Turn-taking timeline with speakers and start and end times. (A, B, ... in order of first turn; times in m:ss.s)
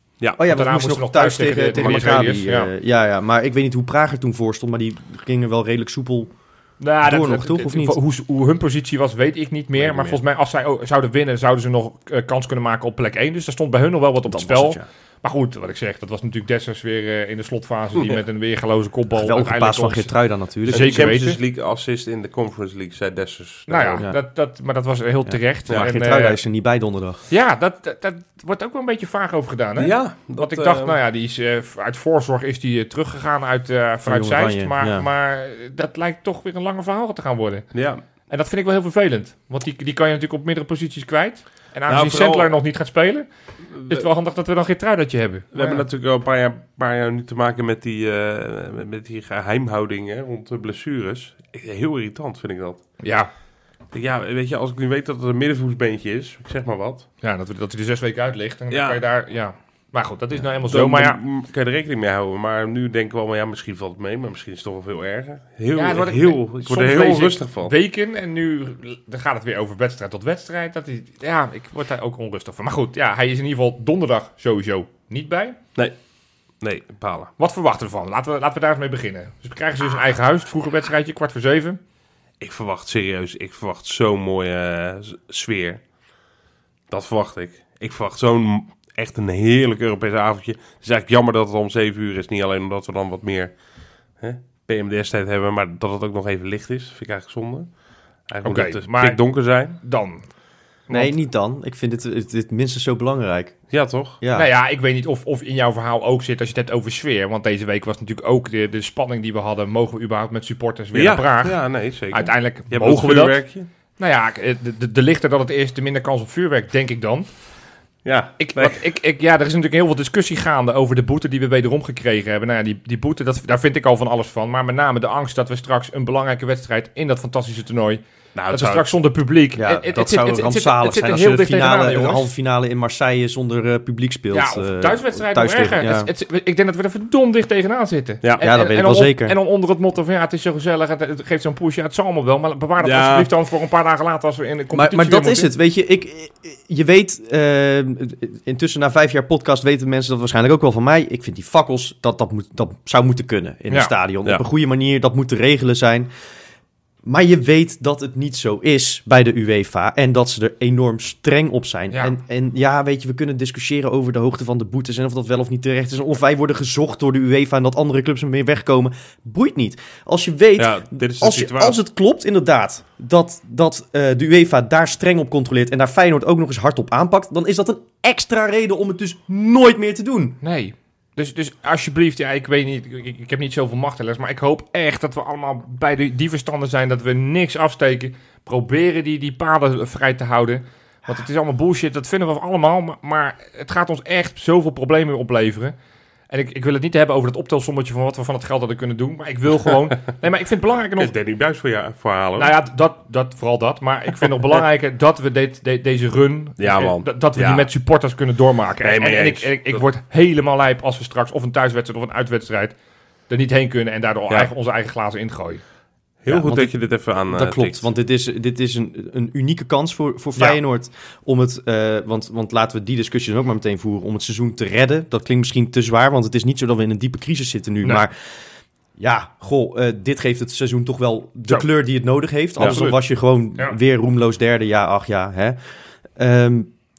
0:00.4-0:06.3 A
0:00.4-0:02.7 B
0:06.8-0:20.1 B
0:07.0-0:08.0 A
0:09.8-0:10.2 A
0:14.3-0:14.9 A
0:19.1-0:21.3 A
0:20.7-0:21.4 B
0:20.7-0:24.0 C
0:23.7-0:26.4 B
0:25.3-0:27.2 A
0:27.3-0:37.7 B
0:29.8-0:31.0 C
0:34.0-0:35.1 A
0:37.7-0:38.0 C
0:38.3-0:43.3 B
0:41.9-0:42.5 C
0:43.7-0:44.0 C
0:43.8-0:45.8 B
0:45.5-0:52.8 C
0:53.0-0:53.3 B
0:53.9-0:57.0 C
0:57.2-1:01.2 B
0:58.7-0:59.0 C
1:00.7-1:07.7 C
1:05.7-1:15.6 B
1:16.6-1:17.3 C
1:17.4-1:21.8 B
1:22.4-1:25.8 C
1:26.9-1:33.5 C
1:34.2-1:37.7 C
1:38.3-1:39.8 C
1:38.4-1:39.2 B
1:39.7-1:40.3 B
1:40.9-1:41.1 B
1:40.9-1:43.6 A
1:43.7-1:44.2 C
1:44.2-1:44.5 A
1:44.3-1:51.6 B
1:50.9-1:53.7 C
1:52.1-1:53.4 B
1:54.0-1:57.3 B
1:58.0-1:58.8 C
1:58.4-2:12.3 B
2:08.3-2:08.9 C
2:09.6-2:16.1 A
2:14.3-2:25.5 B
2:18.4-2:19.4 A
2:22.8-2:23.3 C
2:24.7-2:36.1 A
2:37.0-3:00.4 A
2:50.6-2:51.8 C
3:00.4-3:15.7 B
3:16.3-3:21.1 B
3:21.0-3:22.6 C
3:22.4-3:32.7 B
3:26.6-3:27.7 C
3:28.8-3:29.8 C
3:33.3-3:35.6 B
3:36.2-3:37.8 C
3:36.3-3:48.3 A
3:49.0-3:55.6 A
3:52.6-3:52.9 C
3:52.6-3:53.0 B
3:56.2-3:56.7 A